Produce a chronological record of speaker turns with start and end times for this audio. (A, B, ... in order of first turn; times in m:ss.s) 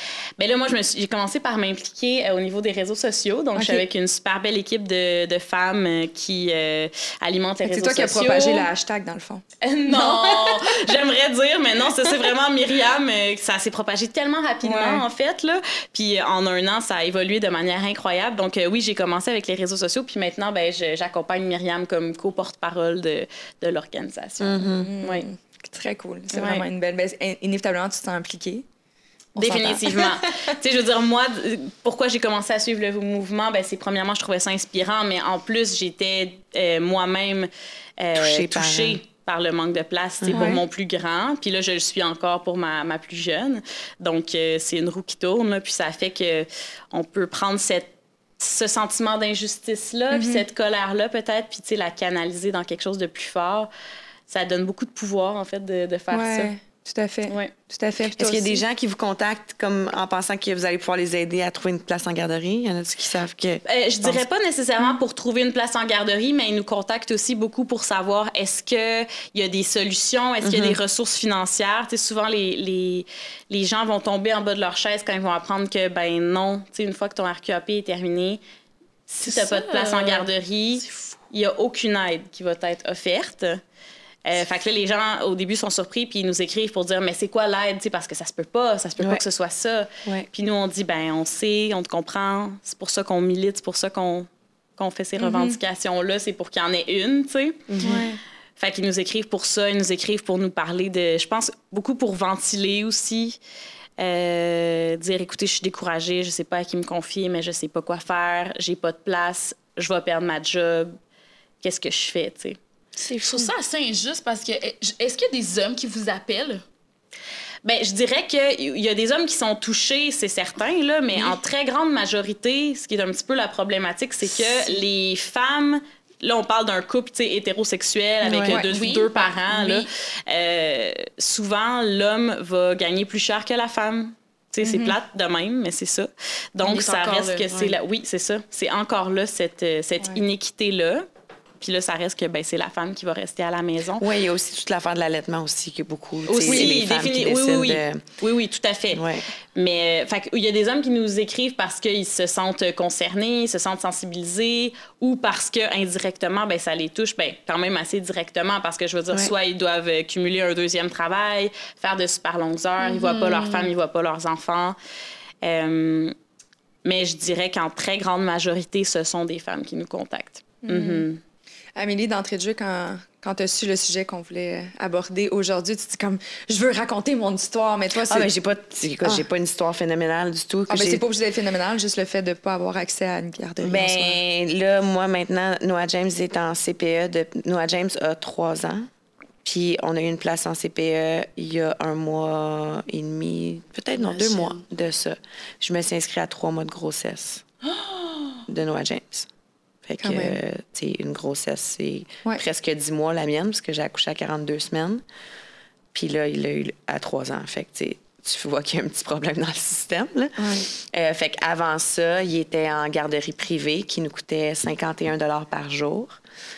0:00.4-0:08.7 A
0:03.5-0:03.8 B
0:07.6-0:11.0 B
0:09.6-0:25.2 A
0:14.6-0:15.0 B
0:24.4-0:24.9 C
0:24.6-0:28.6 B
0:26.3-0:26.6 A
0:29.4-0:30.5 B
0:29.4-0:53.7 A
0:38.2-0:39.0 C
0:40.2-0:40.6 C
0:50.1-0:50.4 B
0:54.3-0:56.5 A
0:56.1-0:58.6 B
0:57.3-0:57.5 A
0:58.1-1:04.2 C
1:03.7-1:18.4 A
1:10.4-1:10.8 C
1:19.1-1:23.6 A
1:19.2-1:20.3 D
1:24.2-1:37.7 A
1:35.2-1:35.6 B
1:37.7-1:38.0 C
1:37.8-1:38.2 B
1:38.6-1:43.4 A
1:44.0-1:50.9 A
1:51.6-1:52.6 A
1:53.1-1:56.6 D
1:57.6-2:21.1 A
2:01.1-2:01.4 D
2:08.2-2:08.6 C
2:08.5-2:09.9 D
2:14.6-2:14.9 B
2:16.6-2:17.8 D
2:21.6-2:24.0 A
2:24.0-2:28.0 C
2:26.3-2:29.0 A
2:26.5-2:26.7 B
2:28.9-2:29.3 C
2:29.5-2:44.8 A
2:42.8-2:43.7 D
2:45.4-2:46.1 A
2:46.8-2:51.2 A
2:50.6-2:51.1 B
2:51.8-2:58.3 B
2:58.1-3:01.0 C
3:00.7-3:04.2 B
3:03.6-3:08.9 C
3:09.4-3:17.4 C
3:13.9-3:14.6 D
3:18.4-3:19.3 C
3:19.8-3:25.0 C
3:20.0-3:20.4 B
3:25.9-3:36.2 C
3:30.4-3:30.7 B